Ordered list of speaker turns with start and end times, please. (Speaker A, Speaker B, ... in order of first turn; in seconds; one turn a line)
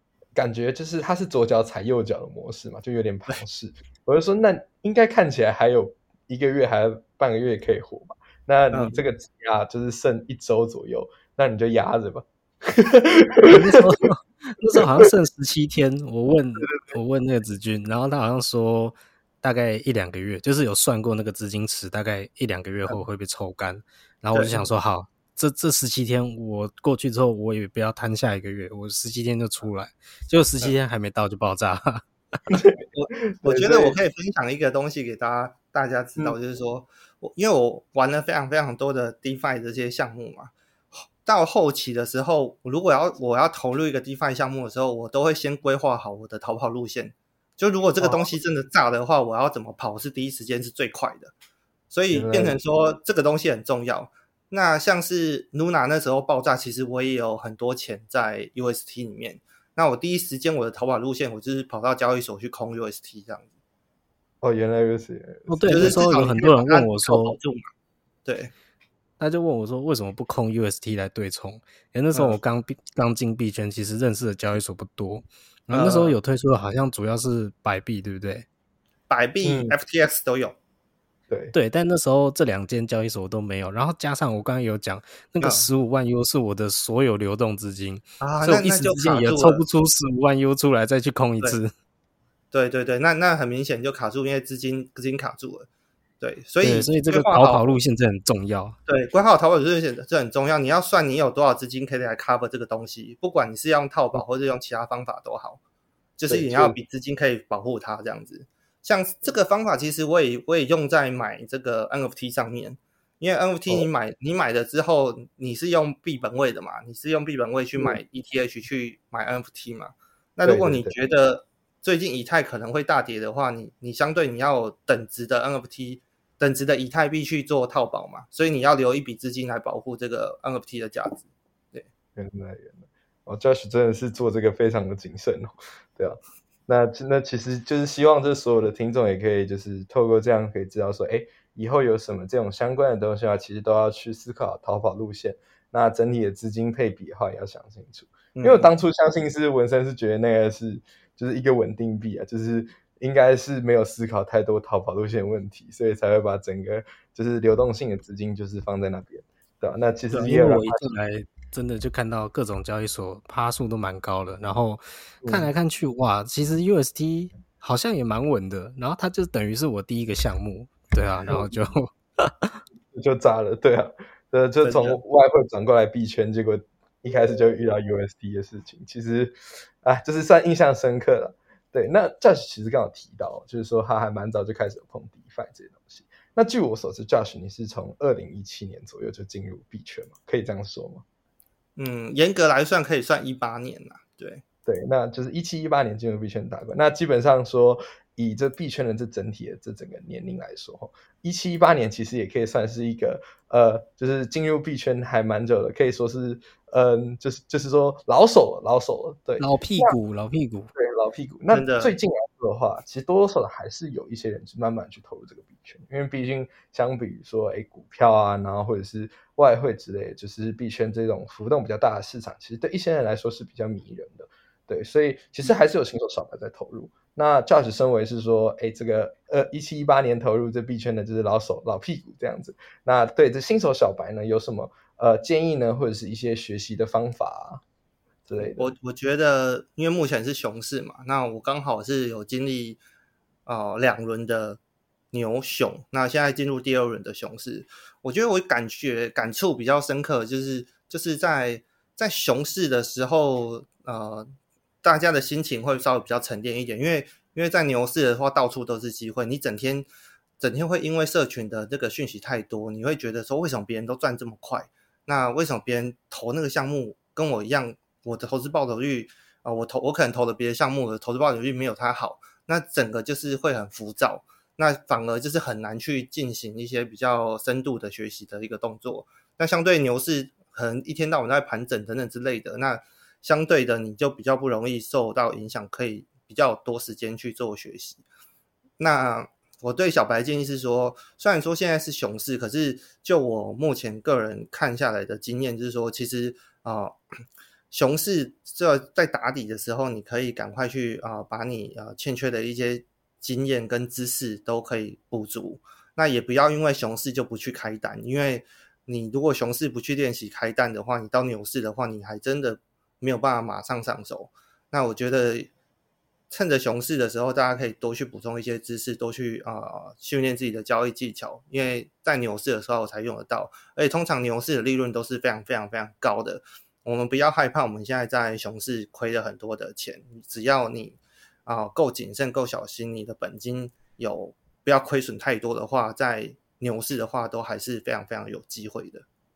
Speaker A: 0.3-13.8
Speaker B: 8.7-9.0
Speaker C: 13.4-32.0
Speaker B: 24.3-24.6
Speaker A: 32.5-34.0
Speaker B: 32.9-51.3
Speaker A: 48.0-48.3
Speaker B: 51.9-63.5
Speaker A: 52.1-52.6
Speaker A: 64.4-66.0
Speaker C: 65.5-67.4
Speaker B: 65.7-67.7
Speaker B: 68.3-68.5
Speaker C: 69.2-78.5
Speaker B: 75.7-76.1
Speaker B: 79.1-80.6
Speaker A: 79.4-79.8
Speaker A: 81.3-81.5
Speaker C: 81.5-91.7
Speaker B: 85.4-85.7
Speaker B: 88.2-89.6
Speaker B: 92.5-95.7
Speaker B: 96.2-97.7
Speaker C: 96.6-98.8
Speaker B: 98.9-105.6
Speaker B: 106.2-131.9
Speaker A: 106.3-106.8
Speaker A: 120.4-120.9
Speaker A: 132.2-160.9
Speaker B: 148.3-148.7
Speaker C: 160.1-172.6
Speaker A: 165.2-165.5
Speaker A: 171.2-171.5
Speaker A: 172.9-191.0
Speaker B: 174.6-175.0
Speaker B: 191.8-194.4
Speaker A: 194.7-210.0
Speaker C: 209.4-210.7
Speaker A: 210.8-237.6
Speaker B: 211.5-212.0
Speaker A: 238.3-238.7
Speaker B: 238.6-242.8
Speaker B: 243.5-244.6
Speaker B: 245.1-254.3
Speaker B: 254.8-259.9
Speaker B: 260.4-288.0
Speaker B: 288.8-297.0
Speaker B: 297.7-315.5
Speaker B: 316.3-339.1